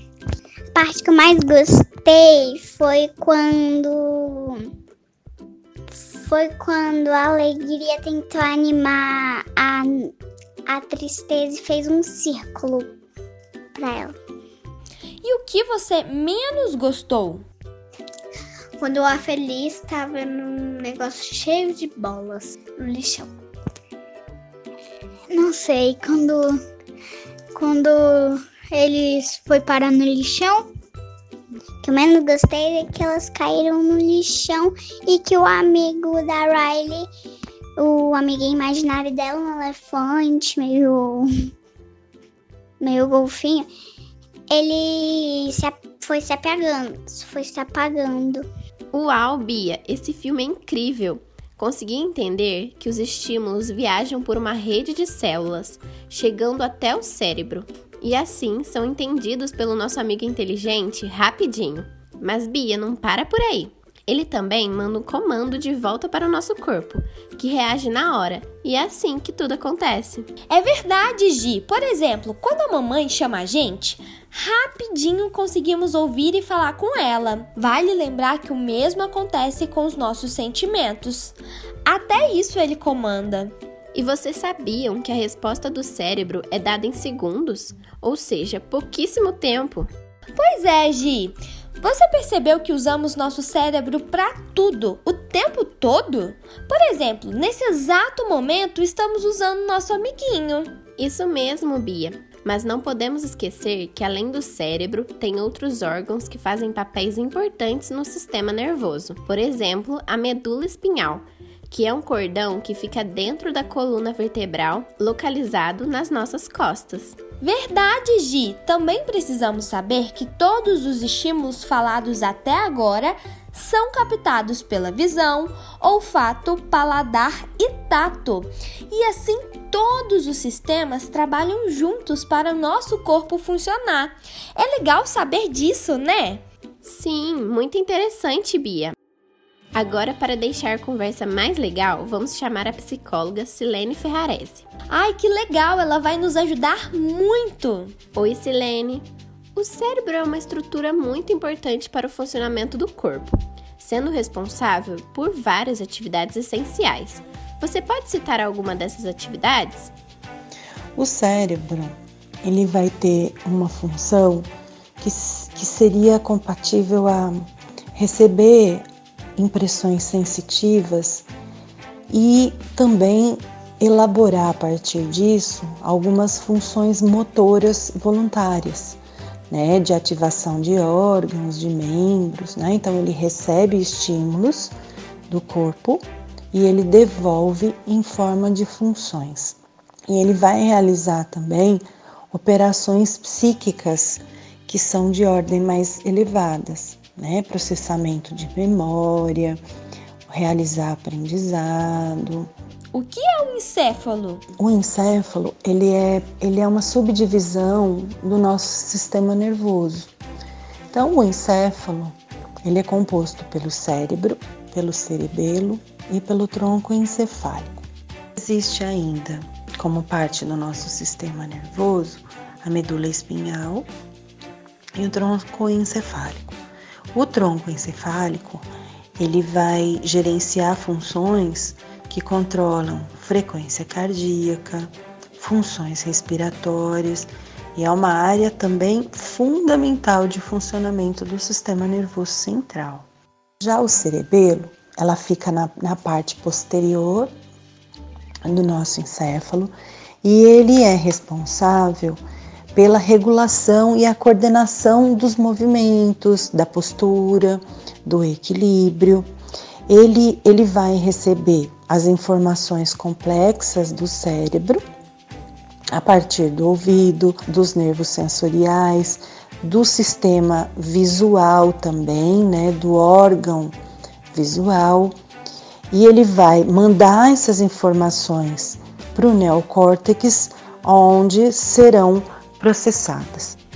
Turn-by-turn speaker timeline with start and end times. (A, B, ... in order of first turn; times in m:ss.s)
0:00.7-0:04.6 A
0:06.1-0:10.1 A
0:10.7-0:12.9 A
0:13.7-0:14.1 A
0:15.2-0:17.4 B
0:18.8-0:23.3 C
0:25.3-0:26.6 C
0:27.5-0:30.6 C
0:31.8-0:37.0 A
0:37.8-0:41.3 A
0:42.8-0:43.7 A
0:44.5-0:48.4 A
0:48.9-1:10.3 D
1:10.5-1:23.5 B
1:23.9-1:29.9 D
1:30.4-1:40.7 B
1:41.0-1:57.2 D
1:57.4-2:16.4 B
2:16.8-2:18.9 D
2:19.7-2:24.7 D
2:24.9-2:27.9 B
2:28.1-2:39.9 D
2:41.0-2:44.5 E
2:45.0-2:48.8 E
2:49.4-2:51.3 E
2:52.1-2:59.0 E
2:59.5-3:04.7 E
3:05.3-3:19.6 E
3:20.3-3:22.5 E
3:22.9-3:24.4 B
3:24.6-3:30.1 E
3:30.9-3:37.8 E
3:38.4-3:43.9 E
3:45.0-3:46.6 E
3:47.1-4:03.0 E
4:03.6-4:07.3 E
4:08.4-4:09.7 E
4:10.2-4:12.2 E
4:12.7-4:19.3 E
4:19.9-4:24.8 E
4:25.9-4:33.7 E
4:34.3-4:35.1 E
4:35.9-4:43.6 E